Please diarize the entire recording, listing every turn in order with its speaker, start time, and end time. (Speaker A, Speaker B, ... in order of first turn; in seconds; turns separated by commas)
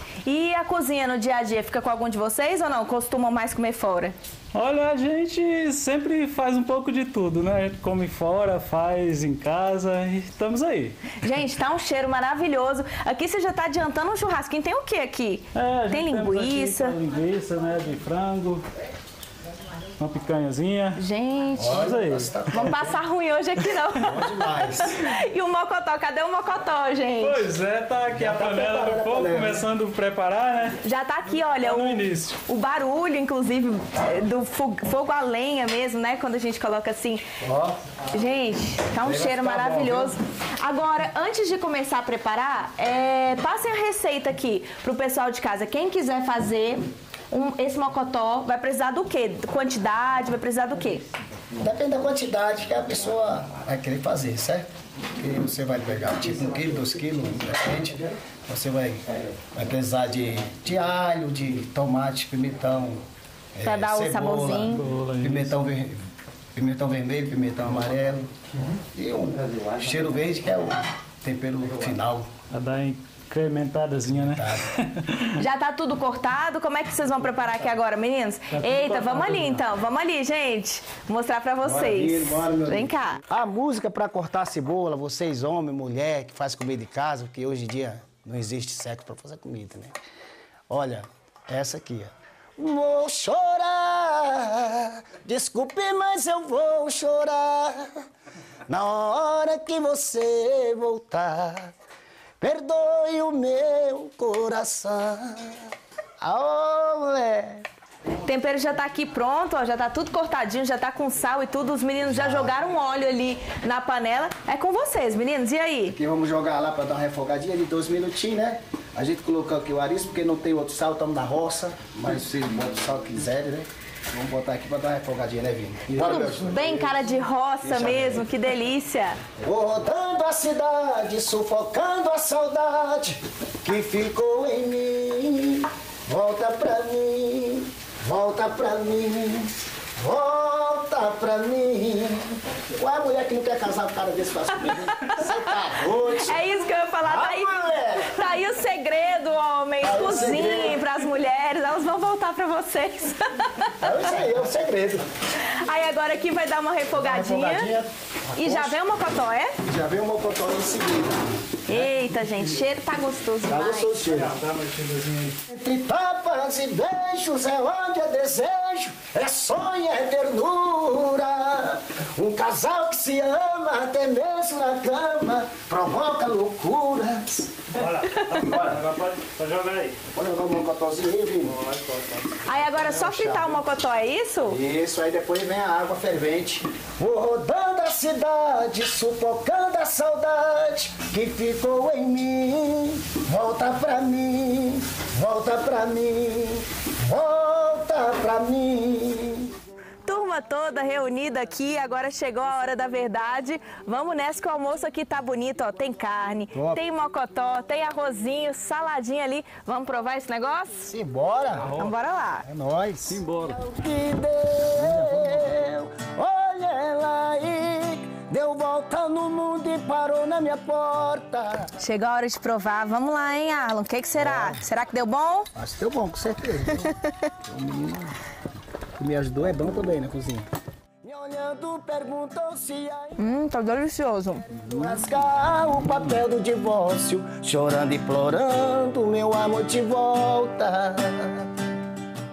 Speaker A: 0.3-4.2, Speaker B: 4.5-11.0, Speaker A: 11.2-17.0, Speaker B: 15.6-18.6, Speaker B: 20.0-21.0, Speaker A: 21.0-21.9, Speaker C: 21.6-23.0, Speaker B: 21.7-22.5, Speaker A: 22.5-27.5, Speaker C: 23.9-25.0, Speaker B: 27.2-30.8, Speaker C: 28.1-29.7, Speaker A: 30.8-37.3, Speaker B: 31.4-32.4, Speaker A: 38.1-51.0, Speaker C: 39.0-40.1, Speaker C: 51.6-66.0, Speaker A: 63.6-64.8, Speaker B: 64.7-65.7, Speaker C: 66.5-68.3, Speaker C: 68.9-72.3, Speaker B: 72.5-75.3, Speaker C: 74.3-74.6, Speaker A: 75.4-83.2, Speaker B: 78.5-79.6, Speaker C: 81.6-89.9, Speaker C: 90.7-97.9, Speaker C: 98.7-101.7, Speaker C: 102.4-105.6, Speaker C: 106.2-107.7, Speaker A: 108.2-116.0, Speaker C: 112.0-112.6, Speaker C: 115.9-127.1, Speaker A: 125.9-129.2, Speaker C: 127.6-128.3, Speaker C: 129.4-146.4, Speaker A: 146.2-154.1, Speaker C: 147.0-148.2, Speaker C: 149.8-150.8, Speaker C: 153.8-155.1, Speaker A: 155.4-157.7, Speaker C: 156.9-158.8, Speaker A: 158.4-159.6, Speaker C: 159.6-161.9, Speaker A: 161.7-164.0, Speaker C: 163.5-164.4, Speaker B: 164.1-165.4, Speaker C: 165.5-177.5, Speaker B: 177.8-180.0, Speaker A: 178.1-178.5, Speaker C: 180.2-181.6, Speaker B: 181.5-183.0, Speaker A: 182.5-184.6, Speaker C: 182.9-183.5, Speaker C: 184.4-199.5, Speaker A: 200.1-210.9, Speaker C: 206.5-206.8, Speaker C: 210.9-211.8, Speaker A: 211.8-212.4, Speaker C: 212.4-221.7, Speaker B: 213.1-213.6, Speaker B: 214.9-215.3, Speaker A: 221.8-225.5, Speaker C: 224.2-224.7, Speaker C: 225.6-226.9, Speaker C: 227.5-228.2, Speaker C: 229.0-230.5, Speaker C: 231.0-233.2, Speaker A: 233.2-234.5, Speaker C: 234.5-241.4